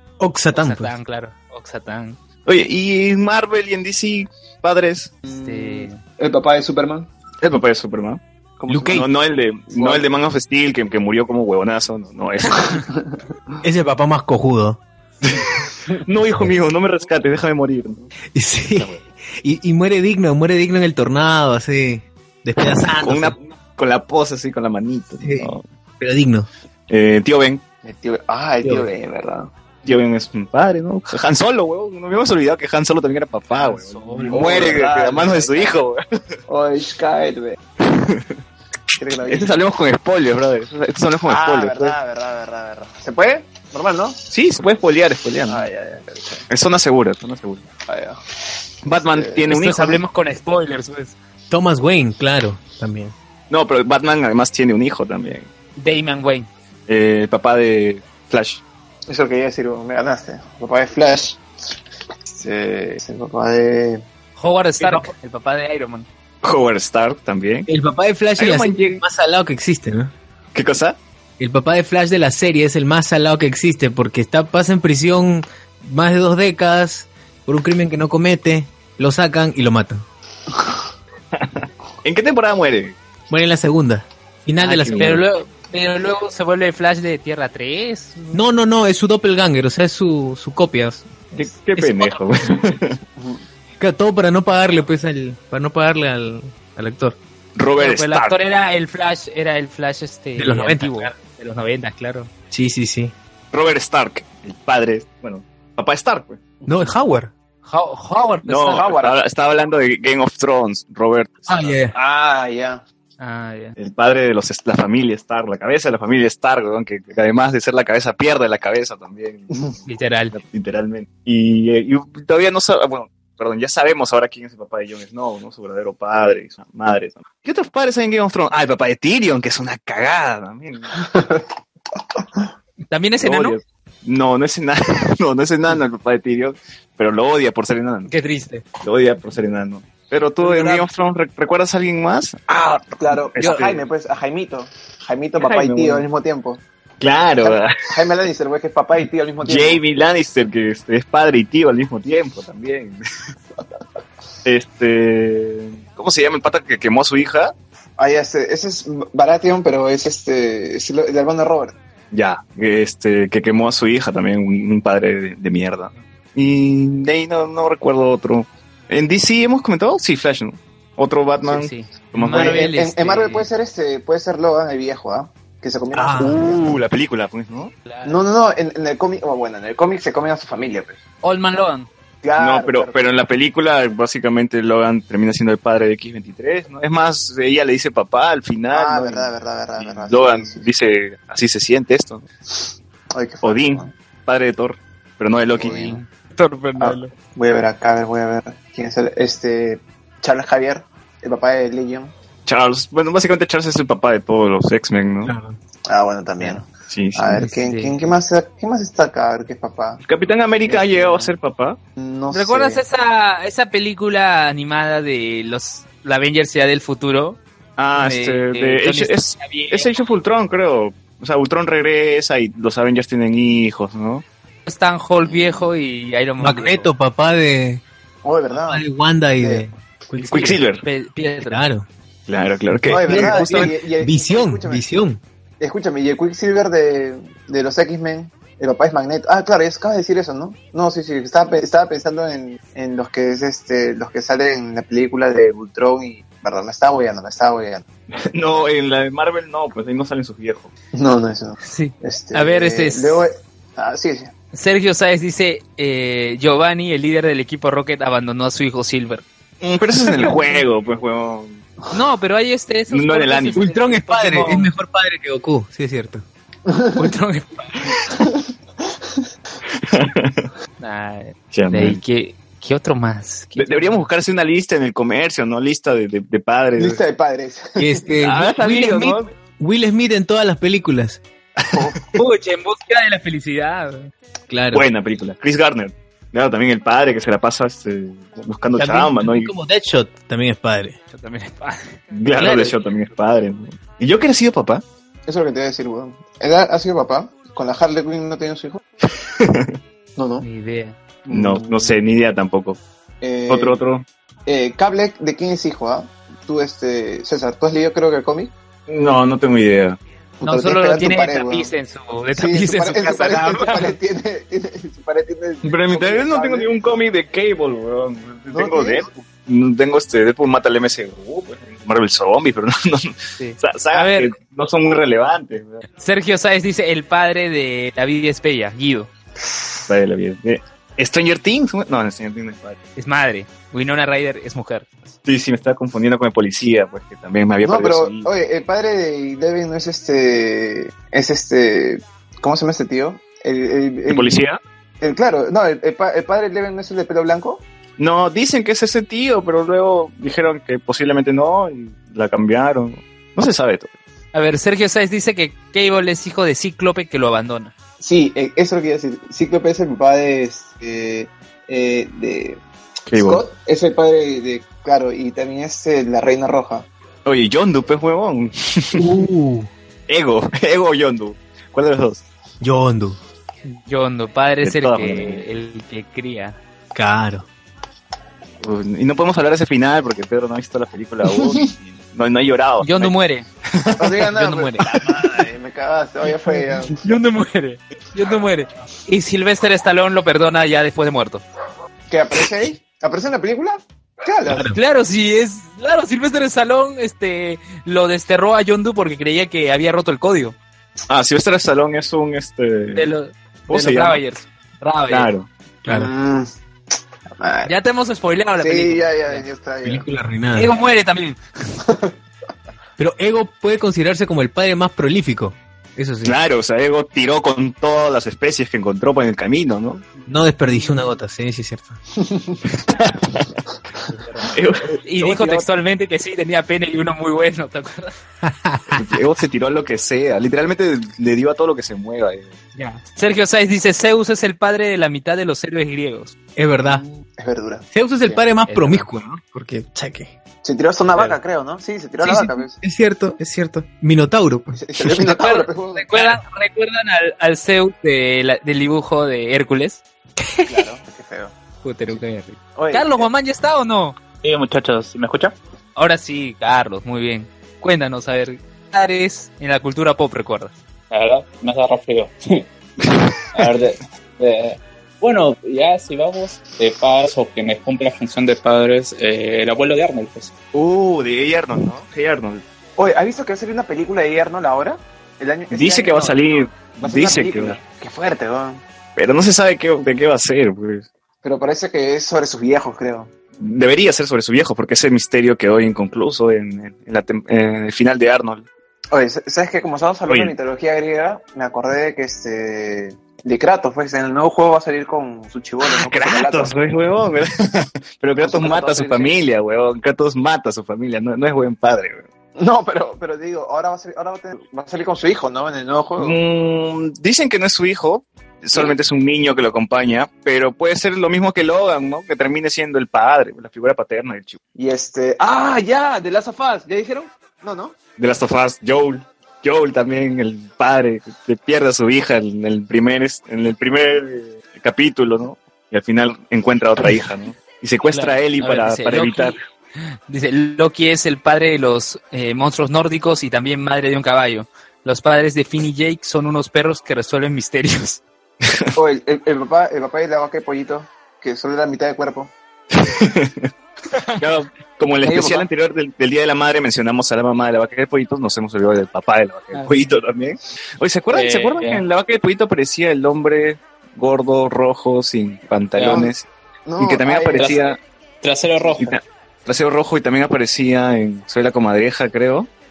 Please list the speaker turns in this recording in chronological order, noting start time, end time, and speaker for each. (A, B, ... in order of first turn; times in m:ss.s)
0:00.2-0:01.0 A
0:00.5-0:02.2 B
0:02.5-0:05.1 C
0:05.3-0:07.1 D
0:05.3-0:06.0 B
0:07.4-0:08.2 C
0:08.6-0:09.0 D
0:08.7-0:09.1 A
0:08.9-0:12.8 C
0:09.7-0:10.1 D
0:13.6-0:14.8 A
0:15.2-0:18.1 C
0:18.3-0:23.4 A
0:23.0-0:25.6 C
0:25.2-0:26.5 A
0:26.9-0:27.6 C
0:27.8-0:29.5 D
0:29.8-0:36.0 C
0:33.5-0:34.8 B
0:34.3-0:35.8 D
0:36.5-0:37.6 D
0:37.8-0:38.3 C
0:39.0-0:39.5 D
0:39.2-0:42.0 C
0:41.2-0:44.2 D
0:44.3-0:45.7 C
0:45.5-0:46.5 D
0:46.5-0:47.7 C
0:47.9-0:48.2 D
0:48.8-0:49.5 D
0:48.8-0:50.0 C
0:49.5-0:51.1 B
0:51.5-0:53.1 A
0:53.5-0:55.5 C
0:55.8-0:56.5 B
0:56.9-0:58.6 C
0:59.1-1:01.4 D
1:02.3-1:04.0 D
1:04.4-1:06.1 B
1:06.4-1:07.7 C
1:07.7-1:10.1 A
1:08.4-1:09.0 C
1:10.5-1:11.0 C
1:11.4-1:20.0 A
1:21.4-1:23.0 C
1:23.3-1:25.2 A
1:24.6-1:28.4 B
1:24.8-1:25.2 C
1:28.3-1:32.1 A
1:31.4-1:33.0 C
1:33.2-1:33.4 D
1:33.8-1:37.2 A
1:37.6-1:38.4 C
1:37.8-1:42.3 B
1:40.4-1:41.1 A
1:42.5-1:43.1 A
1:43.5-1:46.4 C
1:46.7-1:47.3 A
1:47.6-1:48.9 B
1:48.4-1:51.8 C
1:48.7-1:49.2 D
1:51.5-1:52.0 A
1:51.9-1:52.8 D
1:53.2-1:53.8 B
1:53.8-1:59.7 C
1:59.9-2:00.4 B
2:00.3-2:10.9 C
2:11.0-2:11.4 D
2:12.9-2:13.6 B
2:13.2-2:18.1 C
2:18.1-2:18.6 B
2:18.8-2:23.8 C
2:20.4-2:20.8 B
2:22.9-2:26.6 D
2:25.4-2:26.1 C
2:27.0-2:27.9 C
2:27.4-2:29.8 D
2:29.4-2:33.0 C
2:34.4-2:37.5 C
2:38.0-2:41.8 D
2:42.1-2:52.6 C
2:51.5-2:53.5 B
2:52.3-2:56.8 D
2:55.9-2:56.4 A
2:56.4-2:57.7 C
2:57.9-2:58.2 B
2:58.0-3:01.0 D
3:01.2-3:01.9 B
3:02.2-3:03.0 D
3:02.4-3:12.2 C
3:08.7-3:10.7 D
3:13.1-3:13.9 D
3:13.4-3:16.0 C
3:15.5-3:16.0 D
3:15.9-3:17.1 B
3:16.8-3:22.1 D
3:22.5-3:25.3 C
3:25.2-3:25.6 A
3:25.9-3:30.0 D
3:26.9-3:27.4 C
3:27.4-3:28.0 B
3:30.0-3:31.8 C
3:30.6-3:31.3 D
3:32.0-3:32.8 D
3:32.3-3:37.4 B
3:37.8-3:44.2 C
3:38.0-3:39.9 B
3:44.7-3:46.9 B
3:45.2-3:45.7 D
3:46.4-3:47.8 A
3:48.2-3:48.8 D
3:48.6-3:50.6 A
3:49.4-3:49.7 D
3:50.2-3:50.8 C
3:50.8-3:51.6 B
3:51.4-3:51.9 A
3:52.3-3:53.7 C
3:52.7-3:55.2 A
3:52.9-3:54.9 D
3:55.6-4:07.8 D
4:08.3-4:10.7 C
4:10.9-4:14.3 D
4:11.6-4:13.2 B
4:14.5-4:19.2 B
4:19.6-4:21.6 C
4:21.9-4:24.7 B
4:22.9-4:23.6 C
4:23.6-4:26.2 A
4:26.7-4:27.1 D
4:27.0-4:28.0 B
4:29.9-4:30.5 C
4:30.8-4:34.1 B
4:31.5-4:32.0 C
4:33.6-4:37.0 C
4:36.8-4:38.0 D
4:37.8-4:41.2 A
4:38.2-4:39.3 C
4:41.7-4:42.0 D
4:42.1-4:44.1 B
4:44.5-4:44.8 A
4:44.7-4:49.5 C
4:48.8-4:51.0 A
4:51.1-4:52.6 B
4:52.1-4:54.8 C
4:52.4-4:52.7 A
4:55.3-4:58.8 D
4:59.4-4:59.7 C
5:00.2-5:00.5 D
5:00.4-5:01.0 B
5:01.3-5:02.0 D
5:01.3-5:02.8 C
5:03.2-5:03.8 D
5:03.5-5:04.0 C
5:04.5-5:08.5 D
5:08.9-5:10.0 C
5:10.4-5:11.7 D
5:10.4-5:14.0 B
5:12.4-5:16.9 D
5:15.6-5:25.8 C
5:18.5-5:19.1 D
5:23.4-5:24.3 B
5:26.0-5:29.1 B
5:29.9-5:32.8 C
5:33.0-5:35.1 B
5:35.2-5:38.3 C
5:37.6-5:44.4 D
5:44.1-5:44.6 C
5:45.0-5:47.6 D
5:48.0-5:53.9 C
5:54.3-5:57.7 B
5:58.0-6:02.6 D
6:03.1-6:03.4 C
6:03.1-6:06.9 D
6:07.2-6:09.1 C
6:08.9-6:09.7 A
6:10.1-6:12.2 C
6:12.6-6:13.2 A
6:13.7-6:16.6 B
6:14.6-6:15.4 C
6:16.9-6:17.5 A
6:18.6-6:23.1 C
6:21.2-6:21.6 D
6:22.8-6:23.5 B
6:23.8-6:24.2 C
6:24.0-6:27.0 D
6:24.2-6:24.9 B
6:27.0-6:31.4 B
6:32.1-6:34.7 D
6:34.5-6:34.8 A
6:34.7-6:40.6 B
6:41.1-6:43.1 C
6:42.9-6:45.3 B
6:43.7-6:44.2 C
6:45.1-6:45.5 C
6:45.8-6:46.1 A
6:45.9-6:46.5 D
6:47.4-6:47.7 D
6:47.6-6:49.5 B
6:48.6-6:50.1 D
6:49.8-6:50.7 A
6:50.6-6:51.4 B
6:53.0-6:56.4 A
6:56.2-7:00.1 C
7:00.3-7:02.0 A
7:00.7-7:01.1 B
7:02.2-7:02.6 D
7:02.9-7:03.5 C
7:04.5-7:05.7 C
7:05.0-7:08.1 B
7:08.4-7:09.0 A
7:08.9-7:12.5 C
7:12.8-7:16.3 B
7:16.6-7:17.0 A
7:16.8-7:18.4 D
7:17.9-7:20.3 A
7:18.7-7:19.2 B
7:20.6-7:22.8 D
7:22.2-7:25.2 A
7:24.7-7:26.4 D
7:25.2-7:30.0 B
7:30.7-7:31.5 D
7:31.8-7:34.2 B
7:32.8-7:33.3 D
7:34.4-7:35.6 E
7:36.0-7:40.7 B
7:41.1-7:42.6 E
7:43.5-7:50.5 E
7:50.7-7:52.6 C
7:53.0-7:58.8 D
7:55.7-7:57.8 C
7:59.2-8:01.1 C
8:01.4-8:03.3 D
8:03.6-8:08.7 C
8:09.1-8:16.7 D
8:10.3-8:10.5 C
8:15.8-8:22.2 C
8:18.4-8:19.4 D
8:22.6-8:26.4 D
8:26.2-8:34.6 C
8:34.8-8:38.0 D
8:38.2-8:49.6 C
8:48.1-8:49.6 B
8:50.3-8:58.2 B
8:59.0-9:02.5 D
9:02.9-9:03.7 C
9:04.4-9:16.5 C
9:05.2-9:05.7 D
9:11.3-9:12.0 E
9:16.0-9:16.3 E
9:16.0-9:16.3 D
9:16.9-9:17.8 D
9:17.0-9:18.0 C
9:17.6-9:17.8 E
9:18.4-9:19.1 E
9:19.0-9:22.7 C